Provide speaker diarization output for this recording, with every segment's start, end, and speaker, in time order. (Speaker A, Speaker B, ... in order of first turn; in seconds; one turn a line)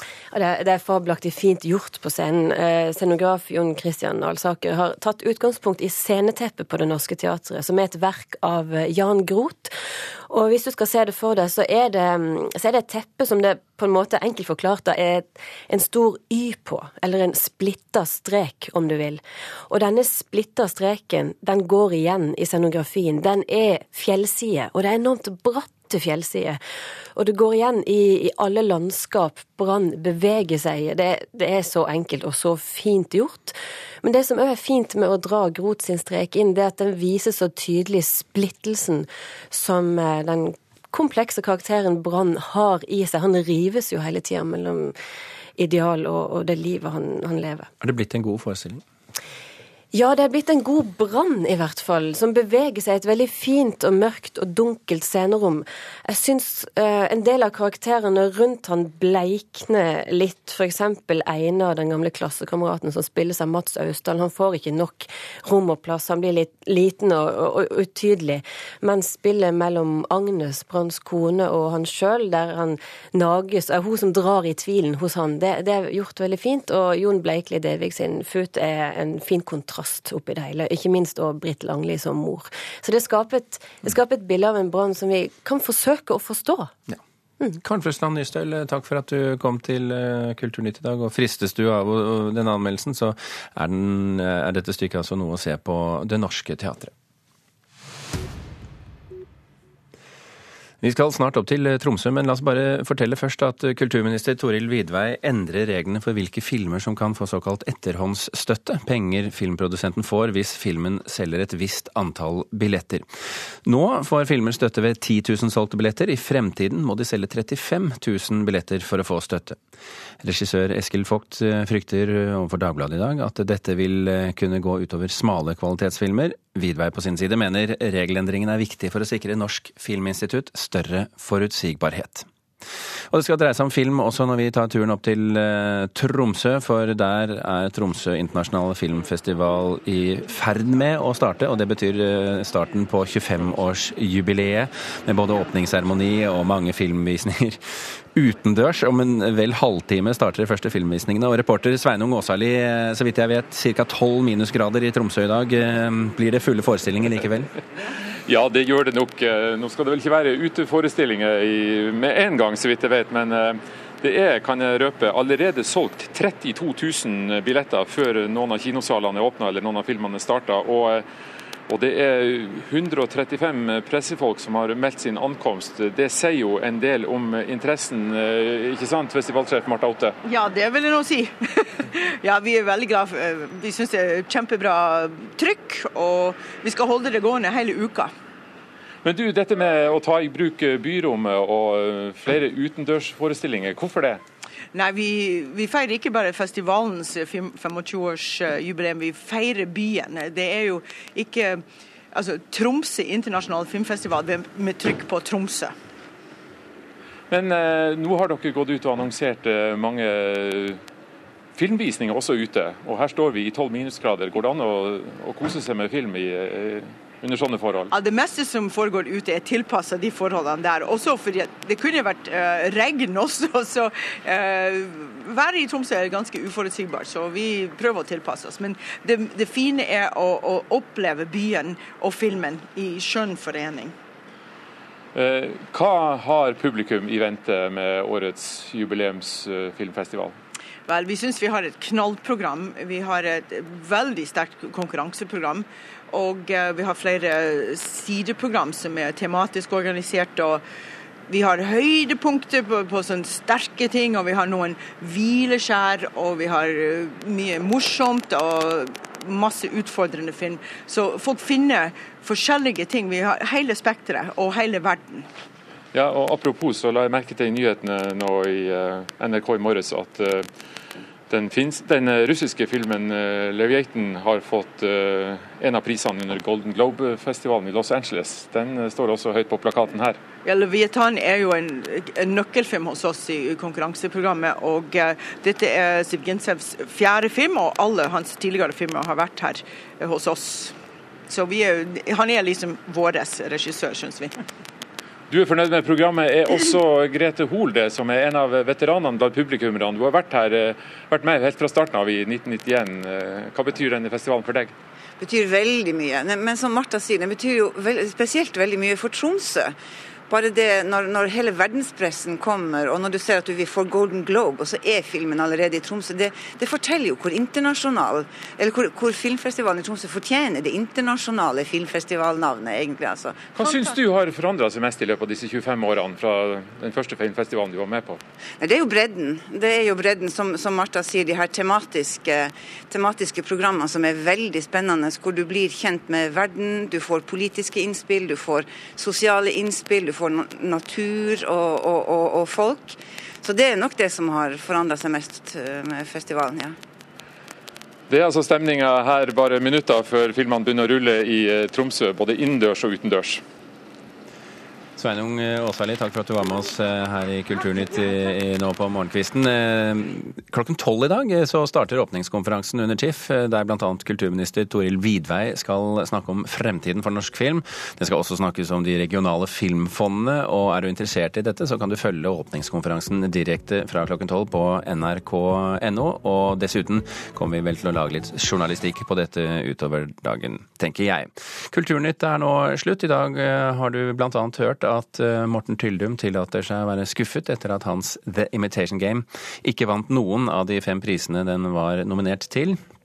Speaker A: 0.3-9.7
Speaker A: 10.3-26.6
Speaker A: 27.2-44.9
Speaker A: 45.6-47.7
Speaker B: 47.8-48.8
Speaker A: 49.9-86.7
Speaker B: 87.5-96.9
Speaker B: 100.8-113.1
Speaker B: 113.7-119.6
Speaker B: 120.2-132.3
Speaker B: 133.1-147.6
Speaker B: 148.1-157.5
Speaker C: 158.3-171.1
Speaker C: 171.7-180.2
Speaker D: 180.2-188.1
Speaker C: 189.0-194.2
Speaker D: 194.7-205.7
Speaker C: 207.3-210.8
Speaker C: 211.6-217.9
Speaker D: 217.9-233.9
Speaker C: 235.1-240.4
Speaker D: 240.9-250.6
Speaker D: 251.3-265.3
Speaker C: 265.9-270.5
Speaker C: 271.3-280.2
Speaker D: 280.4-290.8
Speaker D: 291.3-294.4
Speaker C: 295.3-304.7
Speaker E: 305.2-309.8
Speaker E: 310.3-324.0
Speaker C: 323.6-328.2
Speaker E: 328.6-346.8
Speaker C: 348.1-353.4
Speaker B: 355.0-392.8